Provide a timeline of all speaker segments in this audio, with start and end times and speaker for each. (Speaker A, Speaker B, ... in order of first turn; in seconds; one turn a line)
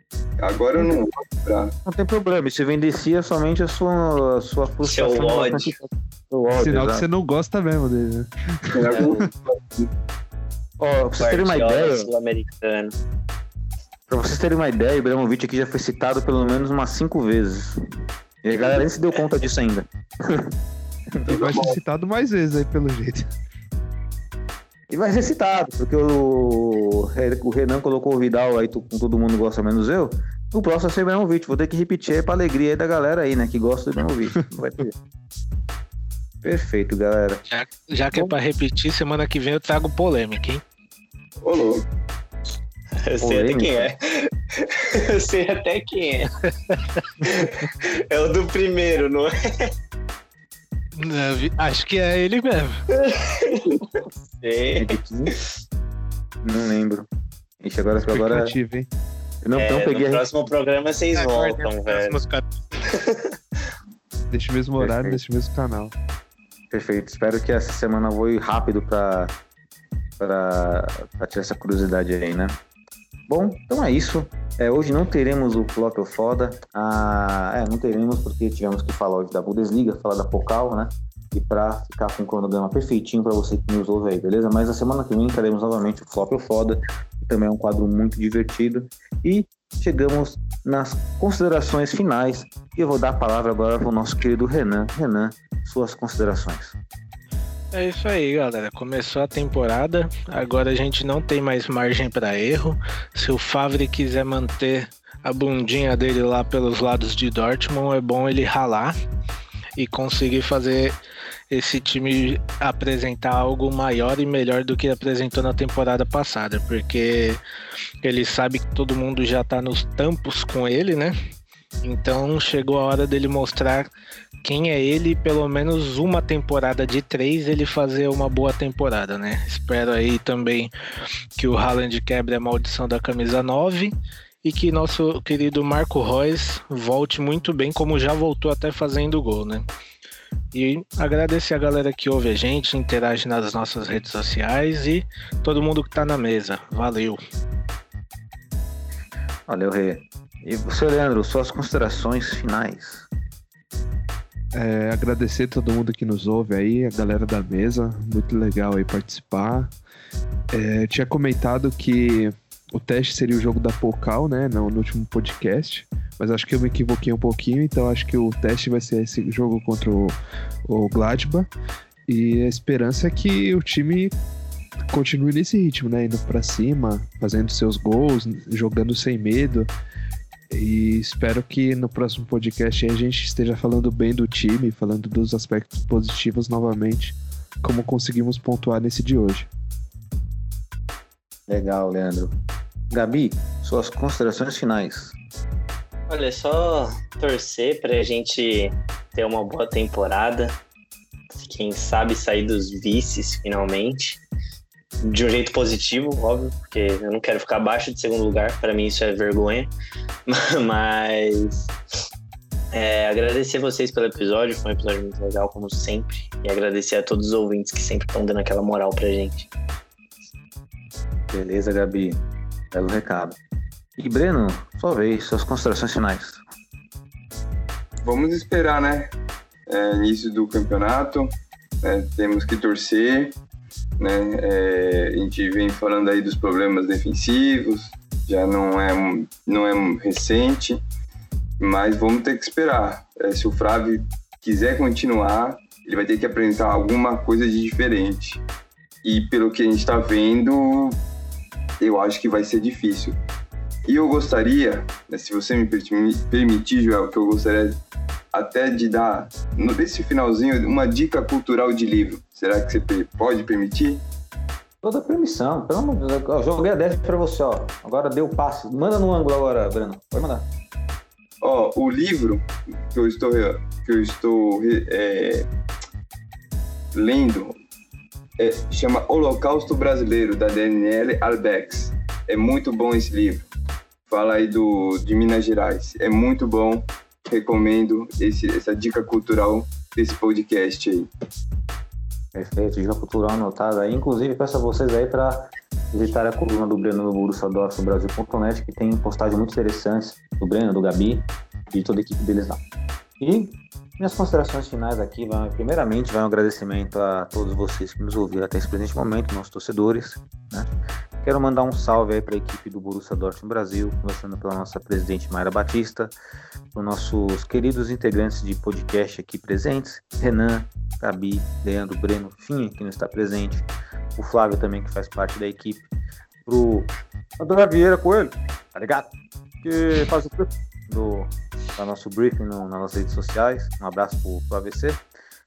Speaker A: 0.4-1.7
Speaker B: 1.9-7.1
Speaker C: 4.8-5.7
Speaker D: 6.6-9.2
Speaker A: 8.7-9.9
Speaker C: 9.0-9.2
Speaker B: 10.8-12.1
Speaker C: 11.2-12.9
Speaker B: 14.1-17.8
Speaker B: 18.4-20.5
Speaker A: 21.3-21.8
Speaker D: 21.3-23.3
Speaker B: 24.9-34.9
Speaker B: 36.4-37.4
Speaker E: 37.5-40.6
Speaker A: 41.4-41.9
Speaker C: 43.0-46.3
Speaker B: 43.2-43.9
Speaker E: 46.7-47.0
Speaker C: 47.2-49.7
Speaker E: 51.0-52.8
Speaker C: 53.0-55.4
Speaker B: 54.8-55.3
Speaker B: 56.4-57.1
Speaker B: 57.6-58.5
Speaker D: 58.1-58.9
Speaker B: 59.4-60.3
Speaker C: 59.5-62.2
Speaker E: 61.1-62.8
Speaker C: 62.8-63.3
Speaker D: 64.3-65.9
Speaker B: 64.8-65.2
Speaker B: 66.7-69.3
Speaker B: 70.2-72.6
Speaker B: 73.3-96.8
Speaker E: 97.7-109.0
Speaker E: 109.8-111.0
Speaker E: 111.5-117.4
Speaker E: 118.0-121.2
Speaker E: 121.8-123.9
Speaker E: 124.4-130.7
Speaker E: 131.4-139.7
Speaker E: 140.5-147.2
Speaker B: 149.5-153.1
Speaker D: 154.5-159.7
Speaker D: 160.5-171.5
Speaker D: 172.1-174.1
Speaker D: 174.9-179.7
Speaker D: 180.5-189.5
Speaker B: 191.5-192.3
Speaker B: 192.9-195.2
Speaker C: 196.1-200.6
Speaker C: 201.3-204.2
Speaker C: 205.1-209.7
Speaker C: 210.3-211.7
Speaker C: 212.7-219.5
Speaker B: 221.3-222.2
Speaker B: 222.7-223.4
Speaker B: 224.0-226.4
Speaker A: 228.0-229.1
Speaker A: 229.7-233.4
Speaker A: 234.0-240.8
Speaker A: 241.6-248.4
Speaker A: 249.0-251.0
Speaker A: 251.8-253.2
Speaker A: 253.8-257.8
Speaker A: 258.3-264.0
Speaker B: 264.8-270.5
Speaker A: 271.4-275.5
Speaker A: 276.9-277.6
Speaker A: 278.4-283.5
Speaker A: 284.1-291.1
Speaker B: 292.4-302.6
Speaker B: 303.2-310.7
Speaker B: 311.2-316.1
Speaker B: 316.7-323.7
Speaker B: 324.2-325.9
Speaker B: 326.4-329.1
Speaker B: 329.6-335.0